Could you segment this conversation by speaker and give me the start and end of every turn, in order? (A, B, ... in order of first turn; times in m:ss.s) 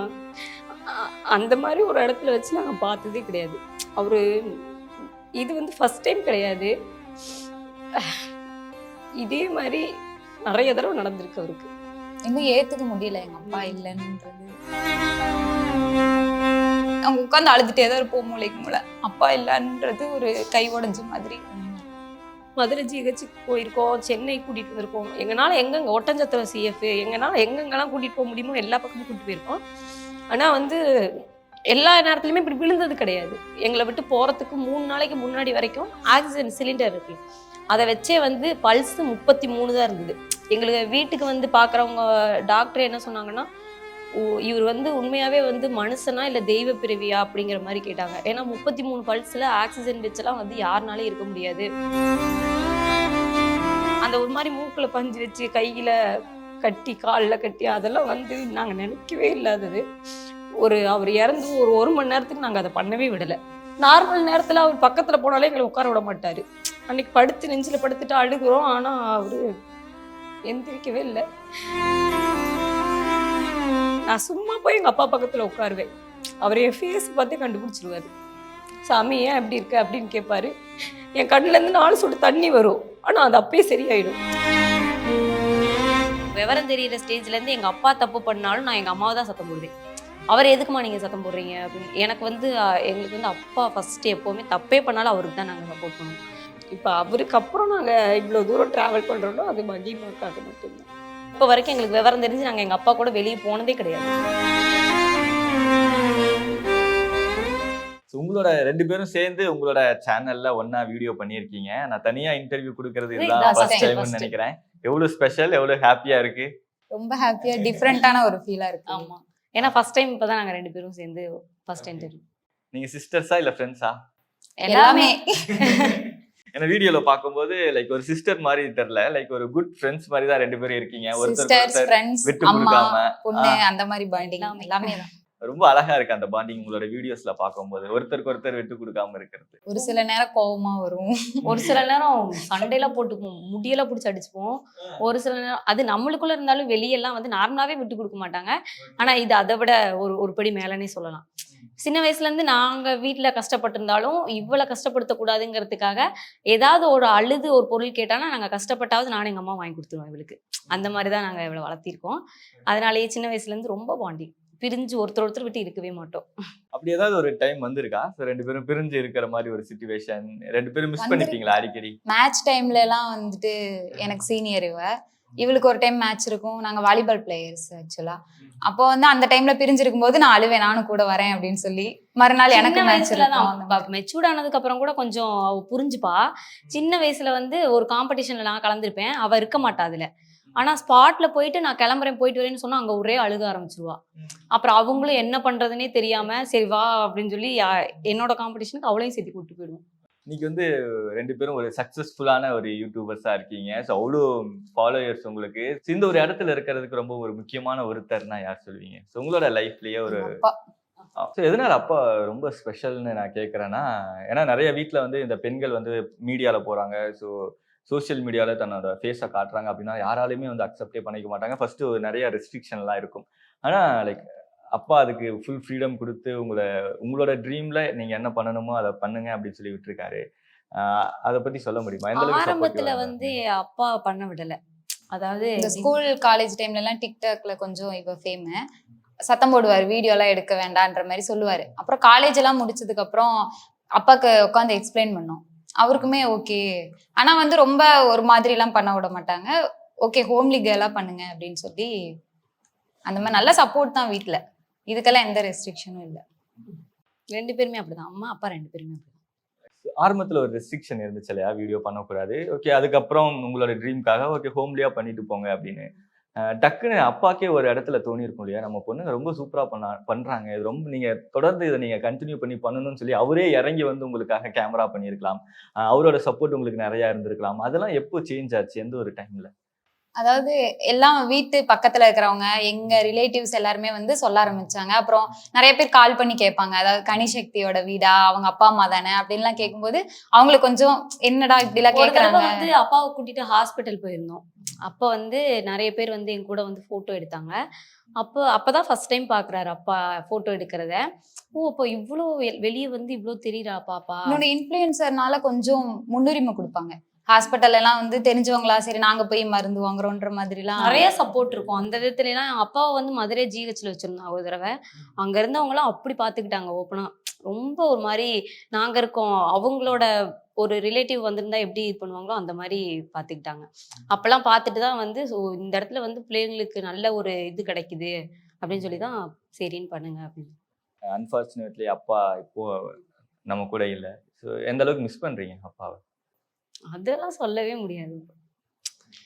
0:00.9-0:04.2 A
0:05.4-0:06.7 A
0:09.2-0:09.8 A
0:10.5-0:11.7 A
0:12.2-0:14.5 B
0:13.5-0:13.7 A
0:17.1-0:21.8 B
0:22.6-0:29.6 A
0:30.3-0:30.8 A
0:31.7-0:37.2 A
0:37.7-0:43.4 A
0:44.4-0:51.7 A
0:54.0-0:56.0 A
0:56.6-0:59.8 A
1:00.6-1:09.4 A
1:10.5-1:11.2 A
1:14.1-1:15.9 A
1:16.4-1:18.1 A
1:18.9-1:20.5 A
1:21.2-1:24.2 A
1:26.3-1:29.7 A
1:30.3-1:36.2 A
1:36.7-1:44.1 A
1:48.1-1:56.5 C
1:53.2-1:54.3 A
1:53.4-1:53.9 B
1:56.9-1:59.1 B
1:58.9-2:02.2 A
2:02.7-2:04.0 C
2:04.6-2:05.8 B
2:04.7-2:06.0 A
2:06.6-2:13.6 C
2:11.2-2:15.1 B
2:14.2-2:14.9 A
2:15.4-2:19.6 C
2:19.7-2:21.6 B
2:21.4-2:31.2 A
2:31.8-2:46.3 A
2:46.7-2:52.0 C
2:51.0-2:51.4 B
2:52.1-2:54.9 B
2:55.4-3:03.8 B
3:02.5-3:14.0 A
3:14.6-3:19.8 A
3:20.3-3:30.3 C
3:30.1-3:30.5 B
3:31.2-3:37.3 C
3:37.9-3:50.2 C
3:50.8-3:53.3 C
3:52.2-3:54.6 A
3:55.1-3:55.9 A
3:55.6-3:58.6 B
3:59.3-4:03.3 B
4:04.0-4:06.6 B
4:07.2-4:09.5 B
4:10.0-4:11.9 B
4:13.1-4:16.2 B
4:17.3-4:19.1 A
4:20.0-4:25.9 C
4:26.6-4:39.5 C
4:40.2-4:52.6 B
4:51.9-4:57.6 A
4:58.2-5:01.0 A
5:01.6-5:04.4 A
5:04.3-5:11.0 B
5:10.8-5:20.1 A
5:20.6-5:30.5 A
5:31.1-5:32.9 C
5:33.5-5:36.0 C
5:36.9-5:38.3 A